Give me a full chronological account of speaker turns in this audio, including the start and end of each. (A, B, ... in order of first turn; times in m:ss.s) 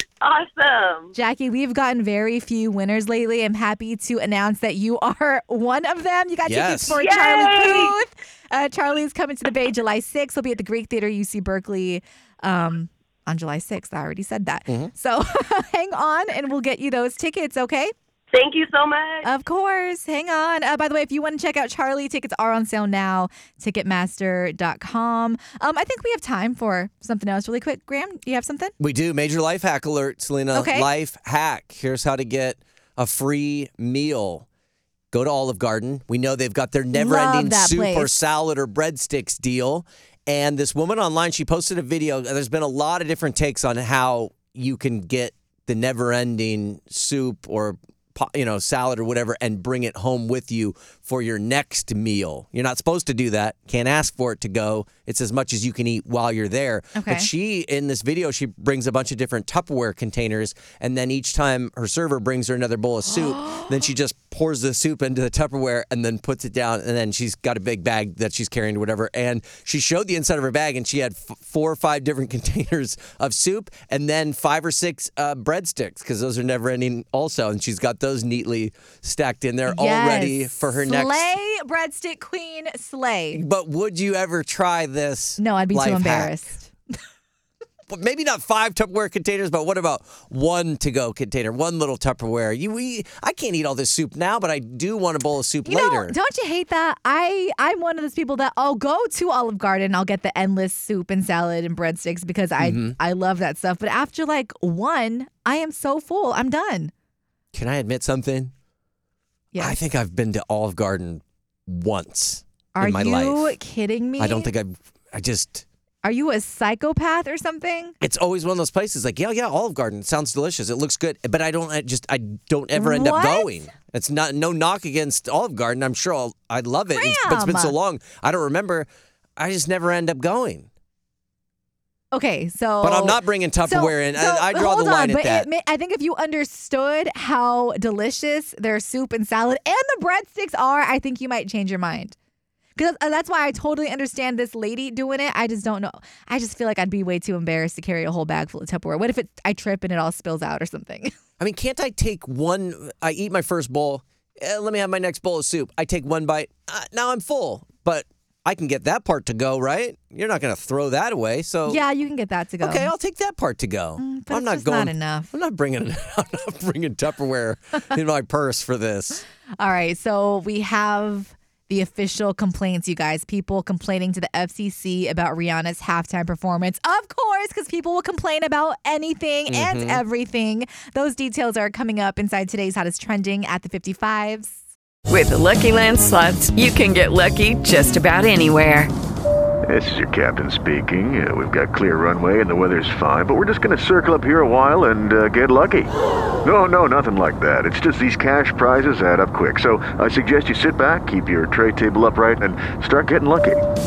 0:00.2-0:01.1 A
0:01.1-0:17.9 B
0:06.4-0:07.0 C
0:06.9-0:08.0 A
0:18.3-0:19.3 A
0:19.2-0:28.7 B
0:28.8-0:34.5 C
0:30.5-0:30.9 B
0:35.1-1:21.4 C
0:36.9-0:38.2 B
0:57.0-0:57.3 B
1:03.3-1:03.7 B
1:19.6-1:23.4 B
1:23.3-1:26.3 C
1:25.4-1:26.7 B
1:27.9-1:36.2 C
1:35.6-1:46.9 B
1:42.6-1:43.0 C
1:47.5-1:48.5 C
1:49.5-1:49.8 B
1:49.6-1:53.6 C
1:52.7-1:54.5 B
1:54.2-1:55.6 C
1:56.0-1:58.0 B
1:58.0-2:10.7 C
2:02.7-2:03.6 B
2:06.9-2:07.8 B
2:12.1-2:22.2 B
2:12.8-2:15.5 C
2:22.8-2:31.1 B
2:31.4-2:41.8 C
2:41.7-2:42.9 B
2:42.6-2:49.2 C
2:44.0-2:45.3 B
2:49.6-3:04.6 B
2:59.5-3:00.0 C
3:05.1-3:08.9 D
3:09.7-3:15.9 E
3:16.4-3:23.6 E